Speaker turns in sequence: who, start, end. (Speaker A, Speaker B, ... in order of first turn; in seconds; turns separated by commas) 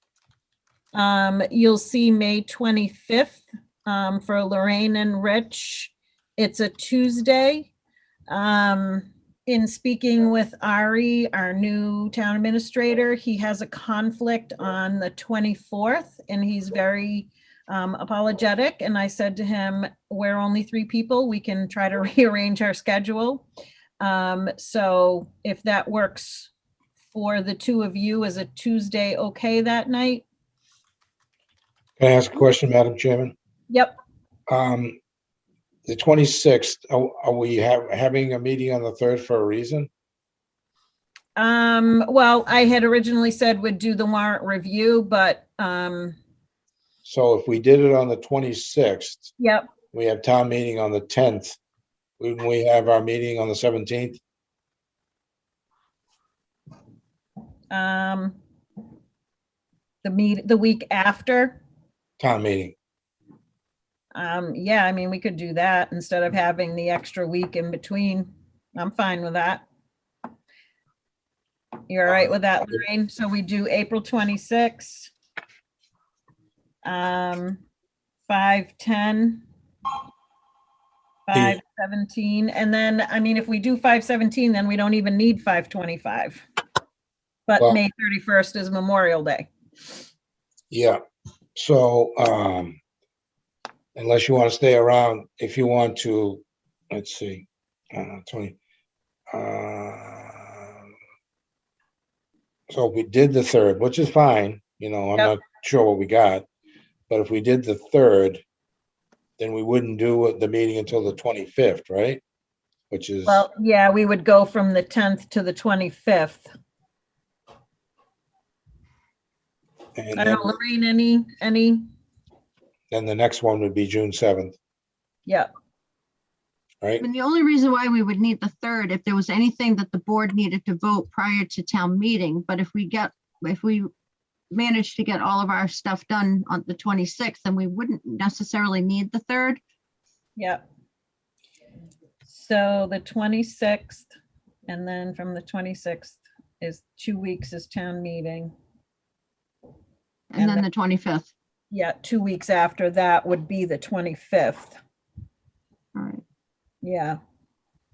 Speaker A: 0.9-7.7, Speaker A: 8.3-23.4, Speaker A: 24.0-26.5, Speaker A: 27.1-30.2, Speaker B: 32.0-33.3, Speaker B: 34.5-35.0, Speaker B: 35.9-39.9, Speaker A: 41.4-46.2, Speaker B: 47.1-49.3, Speaker A: 49.4-49.7, Speaker B: 49.9-51.6, Speaker B: 52.2-54.2, Speaker A: 57.7-58.4, Speaker A: 60.0-61.6, Speaker B: 62.2-62.8, Speaker A: 64.1-69.6, Speaker A: 71.9-75.1, Speaker A: 76.8-77.6, Speaker A: 78.3-79.4, Speaker A: 81.3-86.4, Speaker B: 81.3-81.6, Speaker A: 87.5-89.5, Speaker B: 90.7-91.0, Speaker B: 91.6-92.8, Speaker B: 94.0-98.6, Speaker B: 99.3-100.7, Speaker B: 102.7-106.5, Speaker B: 107.1-108.4, Speaker B: 109.4-112.2, Speaker B: 112.9-113.5, Speaker A: 113.3-116.5, Speaker B: 120.0-120.5, Speaker A: 120.2-121.8, Speaker B: 122.9-124.6, Speaker C: 127.0-133.9, Speaker C: 134.5-139.6, Speaker A: 140.4-140.6, Speaker A: 142.3-144.1, Speaker A: 144.7-148.5, Speaker C: 150.3-151.3, Speaker A: 150.4-150.7, Speaker A: 151.7-154.8, Speaker C: 155.9-156.2, Speaker A: 156.8-157.2